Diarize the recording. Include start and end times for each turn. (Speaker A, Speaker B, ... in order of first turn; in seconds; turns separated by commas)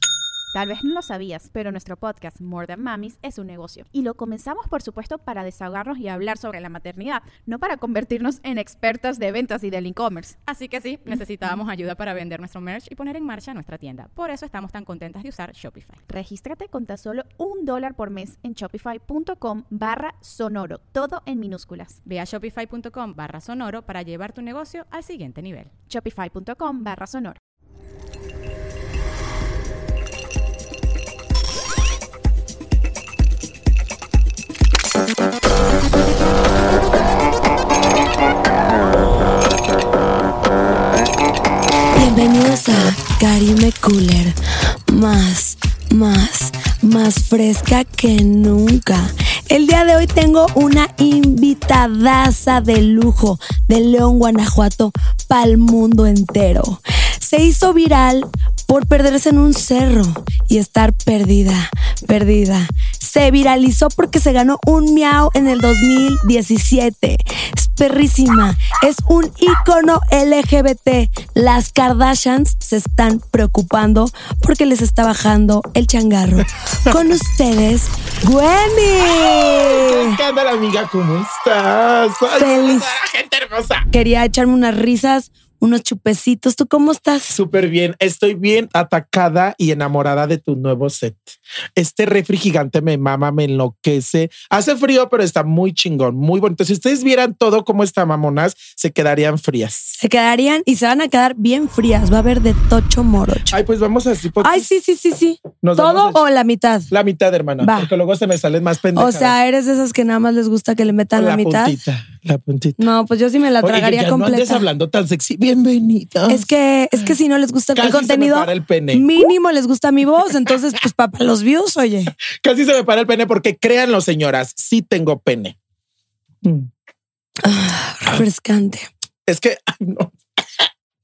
Speaker A: 0.5-10.4, Speaker B: 10.4-16.0, Speaker A: 16.1-22.0, Speaker B: 22.1-25.7, Speaker A: 25.9-27.4, Speaker C: 41.9-44.4, Speaker C: 44.9-80.2, Speaker D: 79.0-83.9, Speaker C: 82.3-82.9, Speaker C: 83.9-87.3, Speaker D: 87.3-100.0, Speaker C: 100.0-103.5, Speaker D: 103.5-104.7, Speaker C: 104.4-106.9, Speaker D: 105.6-106.2, Speaker D: 106.9-109.3, Speaker C: 107.6-107.9, Speaker C: 108.9-111.7, Speaker D: 111.1-112.8, Speaker C: 112.8-114.6, Speaker D: 113.6-117.1, Speaker C: 116.3-122.1, Speaker D: 117.7-119.0, Speaker D: 122.4-125.5, Speaker D: 126.4-126.7, Speaker C: 127.4-128.9, Speaker D: 129.2-130.7